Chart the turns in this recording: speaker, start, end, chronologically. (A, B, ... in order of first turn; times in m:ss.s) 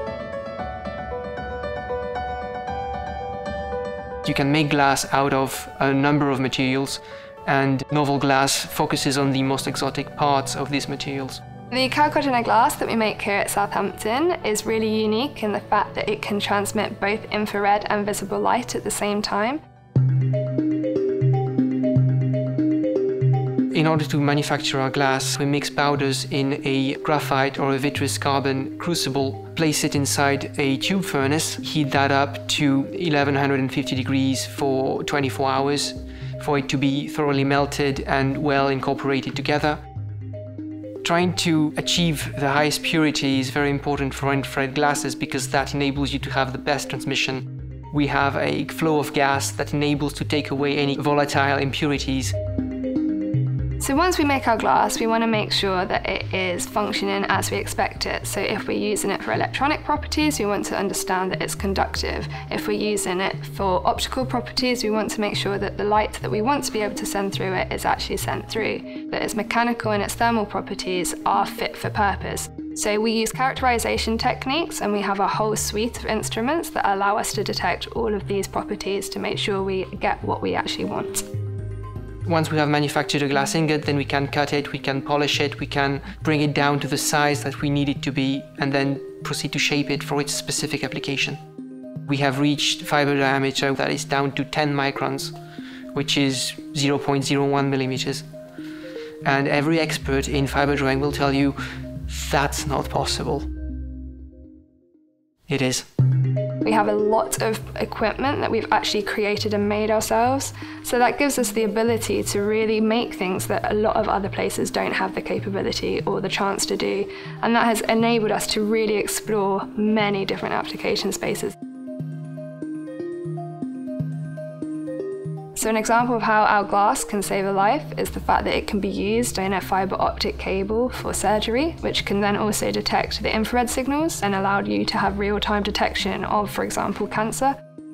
0:04.2-0:11.4 A
0:11.7-0:19.6 B
0:23.7-0:39.8 A
0:41.0-0:52.3 A
0:53.8-1:21.3 B
1:22.2-1:31.4 A
1:32.1-1:35.3 A
1:35.9-1:38.2 A
1:39.2-1:41.6 A
1:42.1-1:43.5 A
1:45.5-1:45.9 A
1:46.6-2:01.6 B
2:05.5-2:17.6 B